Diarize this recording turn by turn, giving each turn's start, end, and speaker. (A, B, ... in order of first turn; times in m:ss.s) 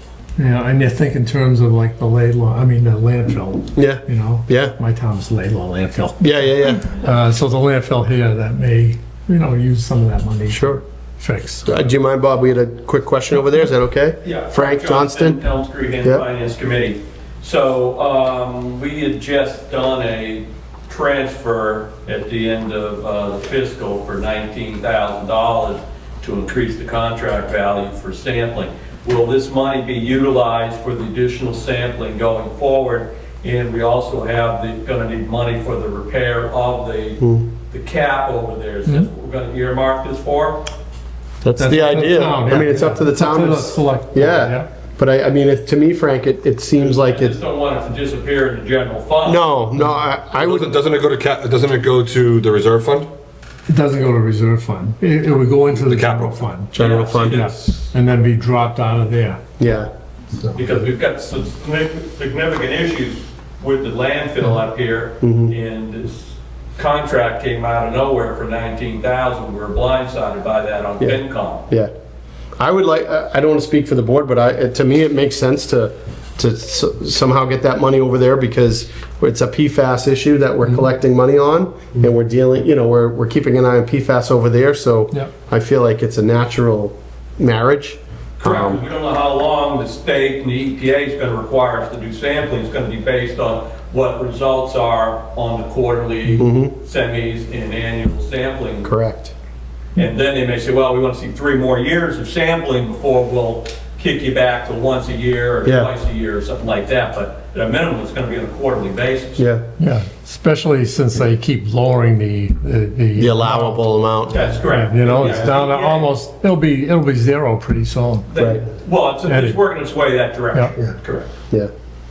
0:00.4-0:11.7 A
0:03.7-0:04.8 B
0:06.2-0:07.0 B
0:10.5-0:10.8 B
0:11.6-0:15.4 B
0:14.2-0:40.7 C
0:37.2-0:37.5 B
0:41.4-0:47.4 B
0:41.6-0:44.6 A
0:46.8-0:49.4 C
0:49.2-0:50.8 B
0:50.4-0:53.1 D
0:53.7-0:59.4 A
0:55.7-0:56.3 D
0:56.7-0:57.4 B
0:56.8-0:57.8 C
0:59.6-0:59.9 B
1:00.5-1:11.6 C
1:05.2-1:05.5 B
1:11.0-1:11.9 B
1:12.6-1:28.8 B
1:28.4-1:38.9 C
1:36.4-1:36.7 B
1:38.8-1:39.3 B
1:40.0-1:49.4 C
1:45.6-1:45.9 B
1:49.4-1:49.6 B
1:49.8-1:53.8 A
1:53.2-1:54.6 B
1:54.3-1:56.1 C
1:54.6-1:58.3 A
1:58.3-2:01.3 C
1:58.4-1:58.6 B
1:59.2-1:59.6 A